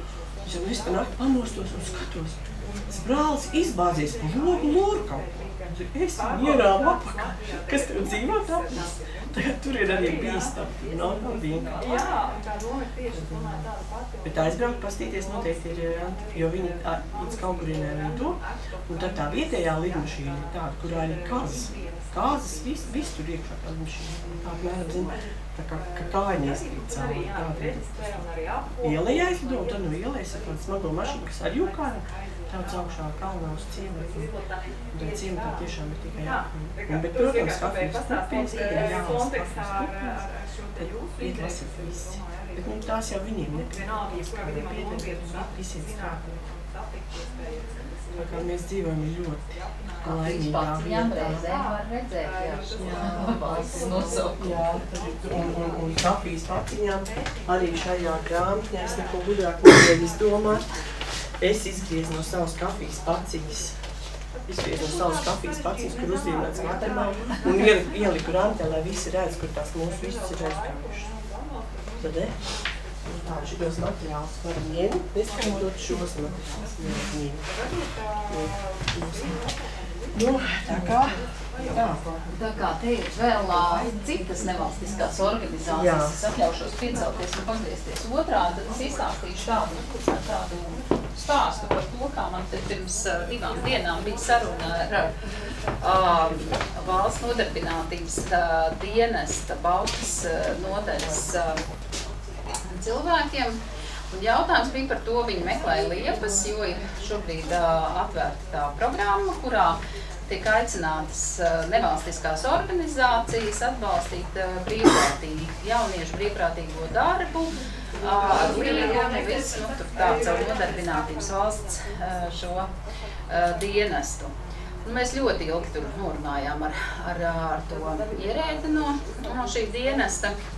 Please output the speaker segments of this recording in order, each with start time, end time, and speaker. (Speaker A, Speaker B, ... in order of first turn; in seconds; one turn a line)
Speaker A: 0.4-12.1
Speaker A: 13.1-13.7
Speaker A: 14.2-34.4
Speaker A: 34.9-46.5
Speaker A: 48.1-51.5
Speaker B: 50.0-54.4
Speaker A: 52.7-60.7
Speaker A: 61.4-63.8
Speaker A: 64.5-71.1
Speaker A: 72.0-72.4
Speaker A: 73.0-77.5
Speaker A: 78.3-79.5
Speaker A: 80.1-82.0
Speaker B: 82.3-95.1
Speaker A: 85.7-86.2
Speaker B: 95.8-101.6
Speaker B: 102.6-122.7
Speaker B: 123.3-130.4